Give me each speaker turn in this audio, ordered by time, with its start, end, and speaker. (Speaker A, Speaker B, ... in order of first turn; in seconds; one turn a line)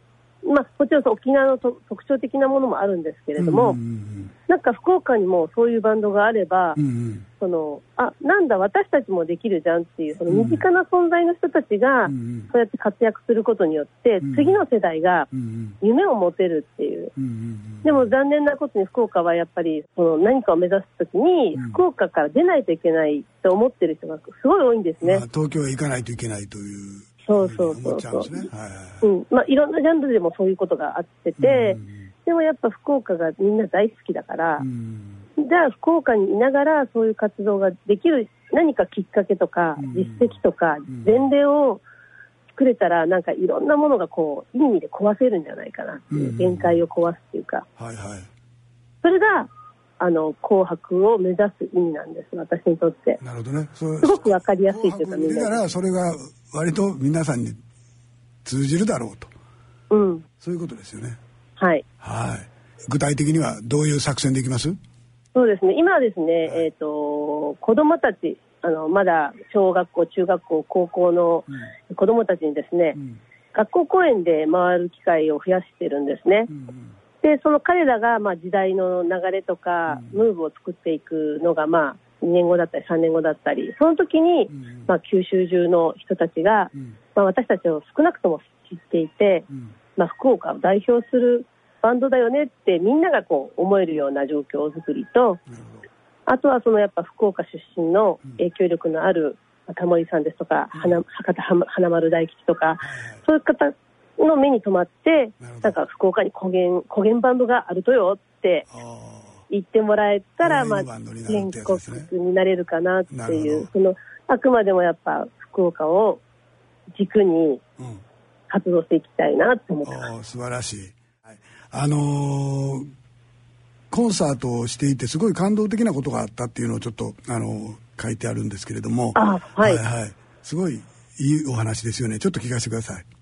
Speaker A: 0.4-3.8
Speaker B: 3.4-4.3
Speaker A: 4.5-6.8
Speaker B: 6.8-7.2
Speaker A: 7.4-15.3
Speaker B: 10.3-10.6
Speaker B: 12.1-12.5
Speaker B: 14.2-14.6
Speaker B: 15.3-15.8
Speaker A: 15.8-17.1
Speaker B: 17.2-18.1
Speaker A: 17.8-25.2
Speaker B: 21.5-21.8
Speaker B: 25.0-29.0
Speaker A: 27.3-28.5
Speaker A: 29.0-34.6
Speaker B: 31.4-32.0
Speaker B: 34.6-35.2
Speaker A: 35.4-41.8
Speaker B: 39.8-40.3
Speaker B: 40.9-41.3
Speaker A: 42.5-47.6
Speaker B: 46.1-46.8
Speaker B: 47.8-48.3
Speaker A: 49.0-53.2
Speaker B: 53.2-57.6
Speaker A: 54.0-55.6
Speaker B: 58.4-59.3
Speaker A: 59.9-60.2
Speaker B: 60.4-61.2
Speaker A: 61.6-61.8
Speaker B: 62.0-64.8
Speaker A: 65.3-73.0
Speaker A: 73.5-76.5
Speaker B: 76.5-76.9
Speaker A: 77.2-89.5
Speaker B: 79.9-80.2
Speaker B: 84.5-84.9
Speaker A: 90.0-95.4
Speaker B: 95.5-95.8
Speaker A: 96.3-108.7
Speaker B: 100.7-101.0
Speaker B: 102.8-103.2
Speaker B: 105.4-105.8
Speaker B: 108.7-109.4
Speaker A: 109.5-116.2
Speaker B: 110.4-112.1
Speaker B: 113.1-113.7
Speaker A: 116.9-117.6
Speaker A: 118.5-120.0
Speaker B: 119.8-122.9
Speaker B: 123.9-133.0
Speaker A: 129.2-129.8